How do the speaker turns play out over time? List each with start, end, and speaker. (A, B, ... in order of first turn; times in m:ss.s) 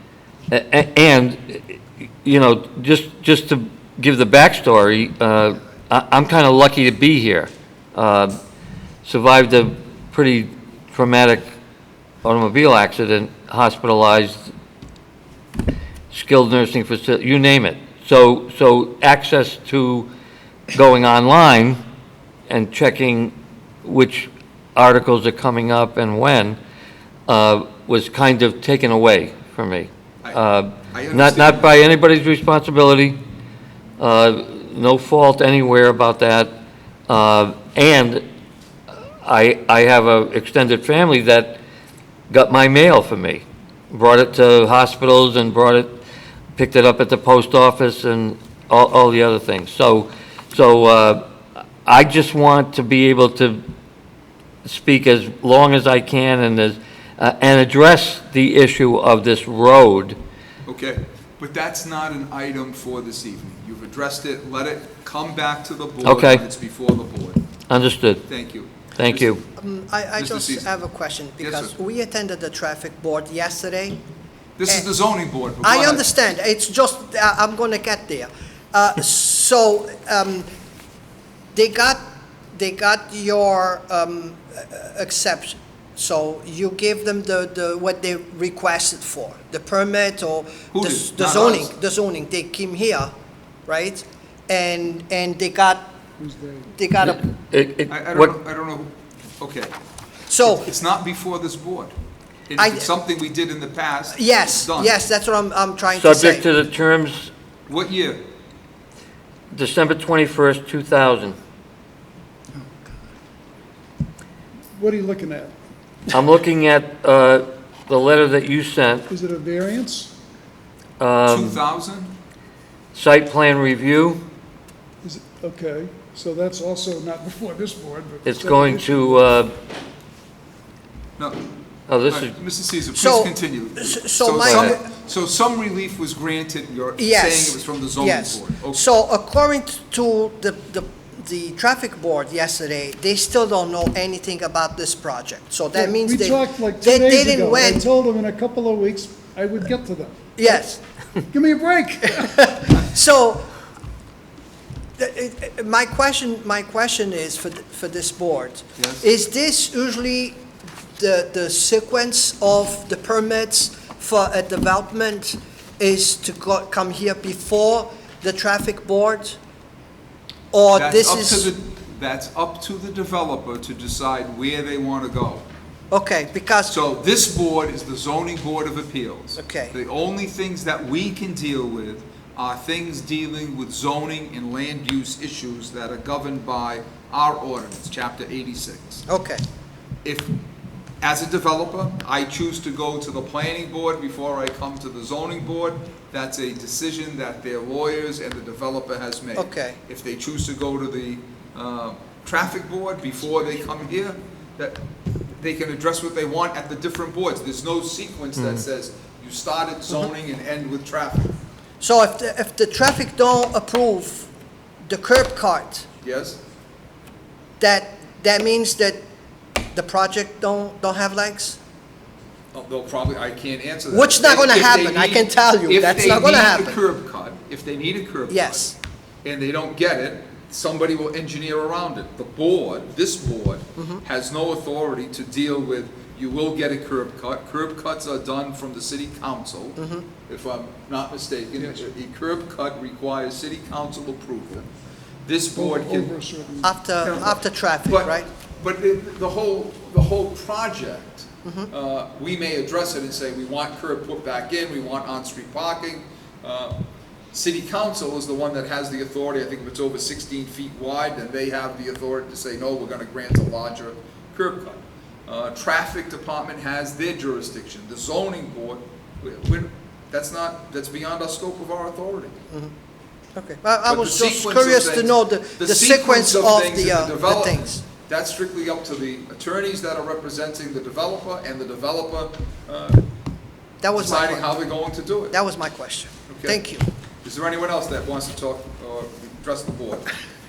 0:00.5-0:08.3 A
0:09.0-0:11.5 A
0:12.2-0:14.5 A
0:16.1-0:20.1 A
0:20.7-0:21.8 A
0:22.5-0:26.6 A
0:27.3-0:33.2 A
0:30.9-0:31.7 B
0:34.0-0:36.5 A
0:37.1-0:38.2 A
0:39.2-0:41.6 A
0:42.3-0:46.0 A
0:46.5-0:51.2 A
0:51.8-0:53.6 A
0:54.6-1:00.2 A
1:00.6-1:07.4 B
1:06.0-1:06.4 A
1:07.7-1:08.2 A
1:08.3-1:09.3 B
1:09.0-1:09.4 A
1:09.6-1:14.0 C
1:10.2-1:10.7 B
1:11.4-1:11.7 B
1:14.6-1:16.0 B
1:15.6-1:20.5 C
1:21.5-1:22.0 C
1:22.5-1:33.1 C
1:30.7-1:31.7 B
1:33.7-1:35.9 C
1:36.2-1:36.7 D
1:36.7-1:37.3 C
1:37.5-1:38.3 A
1:37.9-1:39.7 B
1:40.3-1:40.7 C
1:40.4-1:41.9 B
1:42.5-1:45.0 B
1:42.6-1:42.9 C
1:44.1-1:46.5 C
1:46.0-1:47.3 A
1:47.7-1:48.2 B
1:49.5-1:51.4 A
1:54.8-1:55.5 D
1:56.1-1:59.1 A
1:59.1-2:00.1 D
2:01.0-2:01.6 A
2:01.3-2:02.1 B
2:02.9-2:04.2 A
2:05.0-2:09.2 D
2:08.2-2:09.5 A
2:11.9-2:12.3 A
2:12.1-2:18.8 B
2:12.9-2:14.8 C
2:14.5-2:14.7 A
2:17.0-2:27.8 C
2:25.7-2:30.6 D
2:30.4-2:30.8 C
2:31.3-2:32.5 D
2:32.2-2:33.4 C
2:35.0-2:40.4 C
2:38.8-2:39.0 B
2:41.0-2:49.4 C
2:50.5-2:51.5 C
2:50.7-2:55.4 B
2:55.9-2:56.8 C
2:56.7-3:09.0 B
2:59.4-2:59.7 C
3:09.1-3:09.4 C
3:10.0-3:10.3 B
3:11.0-3:24.8 B
3:19.4-3:19.8 C
3:25.4-3:31.3 B
3:31.8-3:34.3 C
3:34.9-3:35.8 C
3:36.0-3:36.4 B
3:37.6-3:39.0 C
3:39.7-3:41.6 C
3:42.5-3:48.6 B
3:43.9-3:46.8 C
3:48.3-3:48.8 C
3:49.2-4:04.7 B
3:59.8-4:00.1 C
4:05.2-4:06.1 B
4:05.5-4:06.8 D
4:06.6-4:08.3 C
4:07.0-4:16.8 B
4:11.4-4:11.7 C
4:17.3-4:32.4 B
4:33.4-4:37.8 C
4:33.9-4:43.0 B
4:43.8-4:44.6 C
4:44.0-4:45.4 B
4:45.3-4:46.9 C
4:46.3-4:46.6 B
4:47.2-4:50.1 B